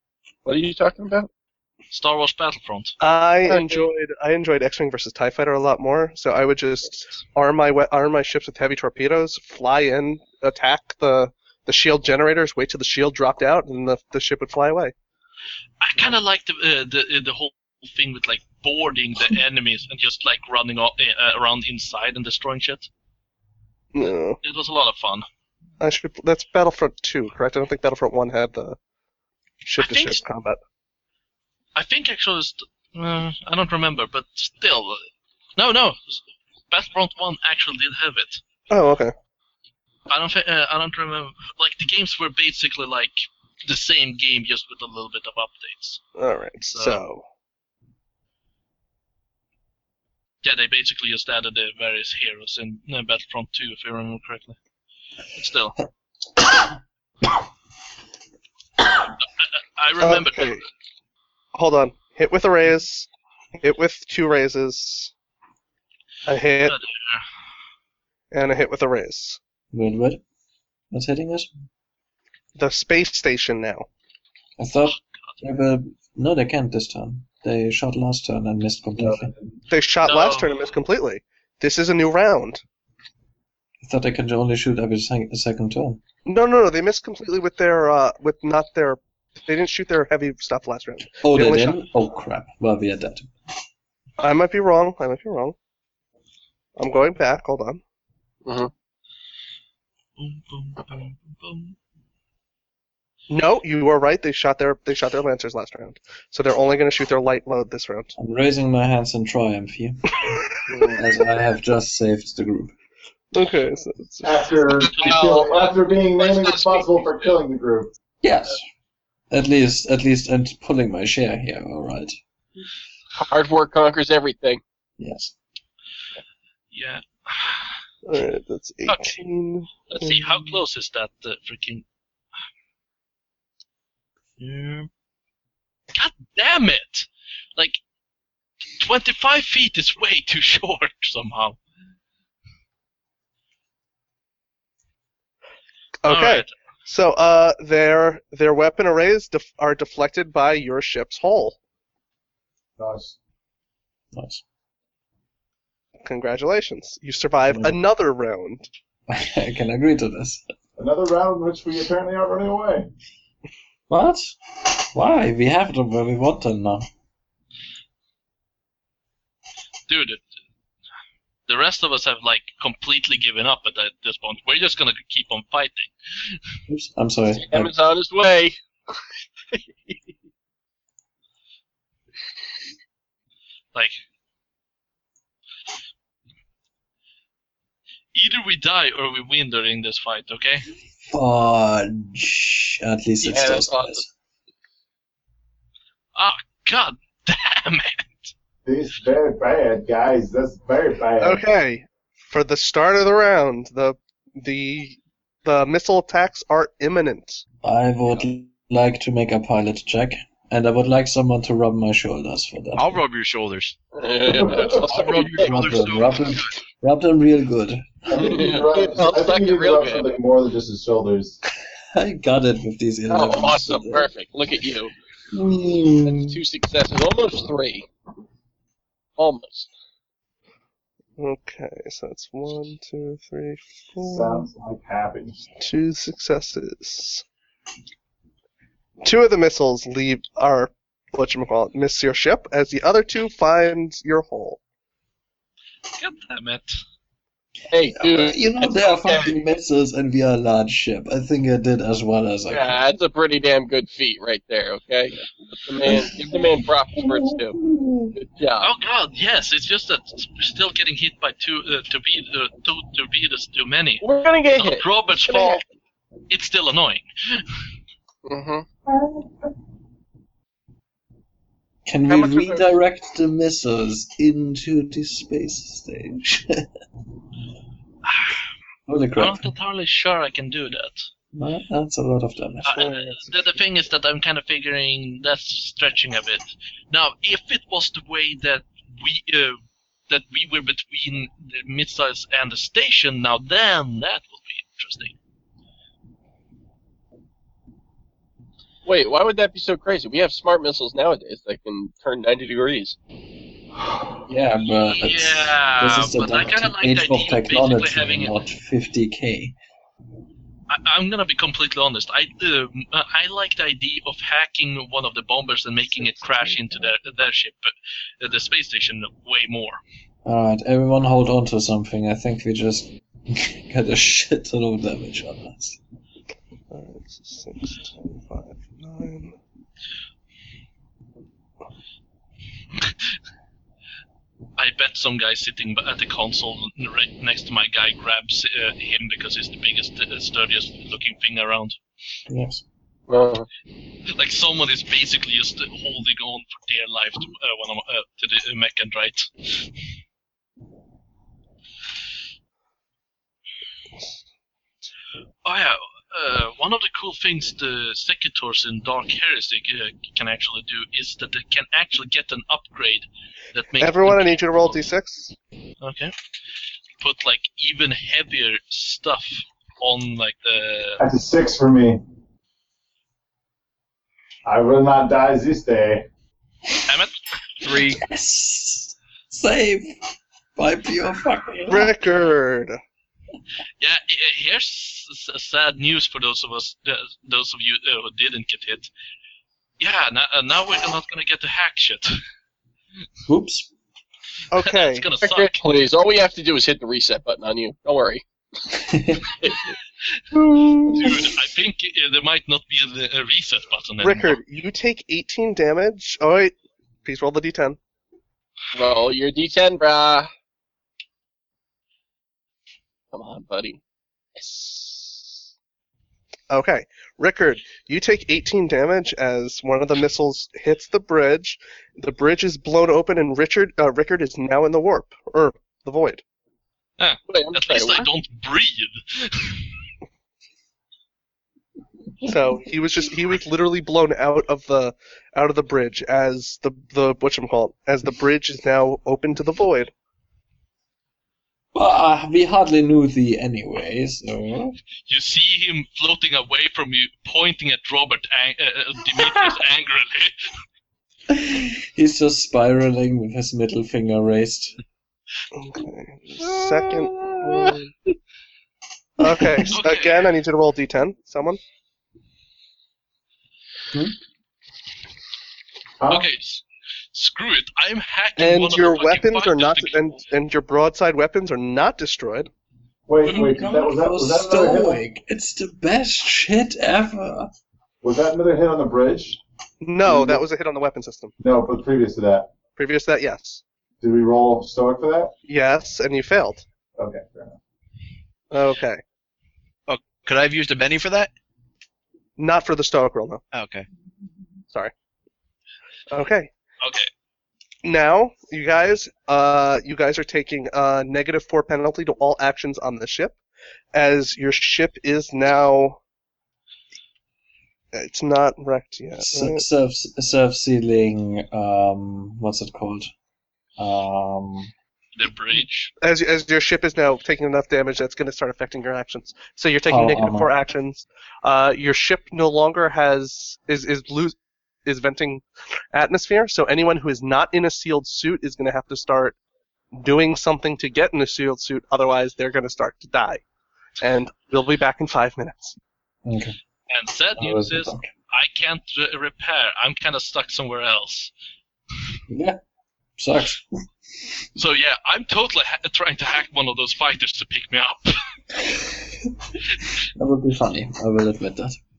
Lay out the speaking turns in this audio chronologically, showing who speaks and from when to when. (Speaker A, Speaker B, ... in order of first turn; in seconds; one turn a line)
Speaker A: 0.5-1.3
Speaker B: 1.9-3.0
Speaker C: 3.0-14.9
Speaker A: 3.5-3.9
Speaker B: 15.8-22.9
Speaker C: 23.9-24.4
Speaker B: 24.4-25.3
Speaker C: 25.8-28.8
Speaker C: 29.6-30.6
Speaker B: 29.8-30.2
Speaker B: 31.8-35.1
Speaker B: 35.6-38.4
Speaker C: 38.7-39.1
Speaker B: 40.1-46.0
Speaker C: 46.2-47.2
Speaker B: 46.7-47.0
Speaker B: 50.4-54.6
Speaker B: 55.4-55.8
Speaker B: 59.4-60.6
Speaker C: 60.0-60.6
Speaker C: 61.5-65.1
Speaker C: 66.3-66.8
Speaker B: 66.6-67.2
Speaker C: 68.3-69.4
Speaker D: 69.7-70.2
Speaker D: 70.9-71.5
Speaker C: 72.6-73.9
Speaker D: 74.6-79.3
Speaker C: 79.7-82.6
Speaker B: 80.0-80.7
Speaker D: 83.8-86.0
Speaker C: 86.3-91.8
Speaker D: 91.2-93.3
Speaker C: 94.2-95.6
Speaker C: 96.8-97.8
Speaker A: 98.5-98.7
Speaker B: 100.2-101.8
Speaker C: 103.3-108.1
Speaker D: 108.2-110.3
Speaker A: 110.7-111.0
Speaker C: 110.7-111.0
Speaker D: 110.9-112.7
Speaker C: 113.3-114.5
Speaker E: 114.2-117.9
Speaker A: 114.8-117.3
Speaker D: 118.2-118.6
Speaker D: 119.3-122.2
Speaker A: 123.2-124.6
Speaker D: 125.0-125.3
Speaker B: 126.7-127.8
Speaker C: 128.1-130.4
Speaker B: 128.9-129.2
Speaker B: 129.9-131.8
Speaker D: 134.4-134.9
Speaker B: 135.9-137.8
Speaker B: 138.8-141.6
Speaker C: 146.0-151.6
Speaker B: 146.1-146.5
Speaker E: 152.8-153.2
Speaker D: 154.1-154.4
Speaker C: 156.0-158.7
Speaker D: 157.5-157.8
Speaker D: 159.1-160.4
Speaker E: 160.8-162.9
Speaker D: 163.9-166.9
Speaker B: 169.9-170.2
Speaker B: 171.5-176.3
Speaker D: 176.7-177.7
Speaker A: 177.3-179.0
Speaker A: 179.5-180.0
Speaker B: 188.1-190.7
Speaker D: 191.1-194.1
Speaker A: 193.2-194.0
Speaker B: 196.2-198.3
Speaker E: 198.7-201.4
Speaker C: 201.2-207.4
Speaker D: 207.6-213.0
Speaker F: 212.8-213.8
Speaker A: 213.9-215.6
Speaker E: 214.3-214.8
Speaker F: 214.4-216.6
Speaker D: 215.3-218.5
Speaker E: 218.1-221.4
Speaker A: 218.2-220.2
Speaker D: 221.9-224.1
Speaker A: 223.1-224.9
Speaker D: 225.3-226.4
Speaker A: 226.1-227.9
Speaker A: 229.2-229.7
Speaker C: 231.2-234.5
Speaker E: 234.0-235.5
Speaker C: 235.6-237.2
Speaker C: 239.0-244.6
Speaker B: 246.0-246.8
Speaker A: 247.7-249.4
Speaker D: 247.9-252.8
Speaker A: 252.5-257.6
Speaker A: 258.1-258.7
Speaker B: 258.6-264.1
Speaker A: 264.0-264.9
Speaker B: 264.6-265.6
Speaker B: 266.3-267.4
Speaker A: 268.3-268.7
Speaker D: 271.9-276.7
Speaker A: 272.1-272.6
Speaker B: 278.1-278.4
Speaker D: 278.9-279.5
Speaker B: 279.2-281.1
Speaker D: 281.3-283.0
Speaker B: 282.6-295.1
Speaker A: 298.9-303.0
Speaker D: 304.3-309.6
Speaker B: 304.9-308.3
Speaker B: 310.7-319.8
Speaker C: 316.0-316.7
Speaker D: 320.2-325.8
Speaker C: 326.7-329.4
Speaker B: 334.6-341.8
Speaker D: 342.3-342.6
Speaker A: 343.1-343.5
Speaker B: 344.1-349.5
Speaker B: 355.4-364.8
Speaker C: 363.8-365.4
Speaker B: 365.8-366.1
Speaker B: 367.0-371.0
Speaker E: 371.0-372.0
Speaker E: 374.4-376.1
Speaker B: 376.9-377.1
Speaker F: 377.6-377.9
Speaker D: 377.7-381.9
Speaker C: 381.7-382.8
Speaker B: 383.8-388.9
Speaker B: 389.8-392.2
Speaker D: 393.3-393.7
Speaker C: 394.5-395.2
Speaker B: 394.6-395.6
Speaker A: 395.2-398.2
Speaker D: 398.8-399.2
Speaker A: 399.4-399.7
Speaker C: 400.3-401.3
Speaker B: 400.9-404.4
Speaker C: 404.0-407.8
Speaker A: 408.7-410.3
Speaker A: 413.1-413.8
Speaker A: 414.4-414.9
Speaker C: 416.5-426.2
Speaker B: 427.0-429.7
Speaker A: 427.3-428.1
Speaker C: 432.2-439.9
Speaker D: 441.7-444.8
Speaker B: 445.1-450.4
Speaker D: 451.3-454.8
Speaker C: 455.5-457.9
Speaker A: 456.9-457.7
Speaker C: 459.2-461.6
Speaker B: 459.6-460.3
Speaker E: 466.0-466.3
Speaker B: 466.1-470.1
Speaker C: 468.4-472.5
Speaker E: 473.1-475.0
Speaker B: 473.2-473.6
Speaker D: 473.2-477.5
Speaker E: 478.0-479.4
Speaker C: 479.8-481.3
Speaker E: 480.1-480.4
Speaker E: 481.4-482.6
Speaker C: 482.8-483.6
Speaker E: 484.0-485.3
Speaker C: 485.4-486.6
Speaker E: 487.0-487.6
Speaker C: 488.5-489.0
Speaker F: 489.9-491.3
Speaker C: 492.4-493.4
Speaker F: 493.5-493.9
Speaker C: 496.1-496.5
Speaker B: 496.8-497.1
Speaker C: 497.8-503.4
Speaker C: 503.9-506.0
Speaker C: 507.9-509.6
Speaker D: 509.2-513.1
Speaker D: 513.8-514.7
Speaker B: 515.2-515.9
Speaker C: 516.0-529.4
Speaker D: 519.9-520.5
Speaker C: 529.9-533.4
Speaker C: 534.0-535.8
Speaker D: 536.2-536.6
Speaker B: 536.9-541.3
Speaker D: 537.4-538.1
Speaker D: 542.3-542.6
Speaker D: 543.2-543.6
Speaker B: 544.6-548.2
Speaker D: 548.7-549.3
Speaker D: 550.2-551.8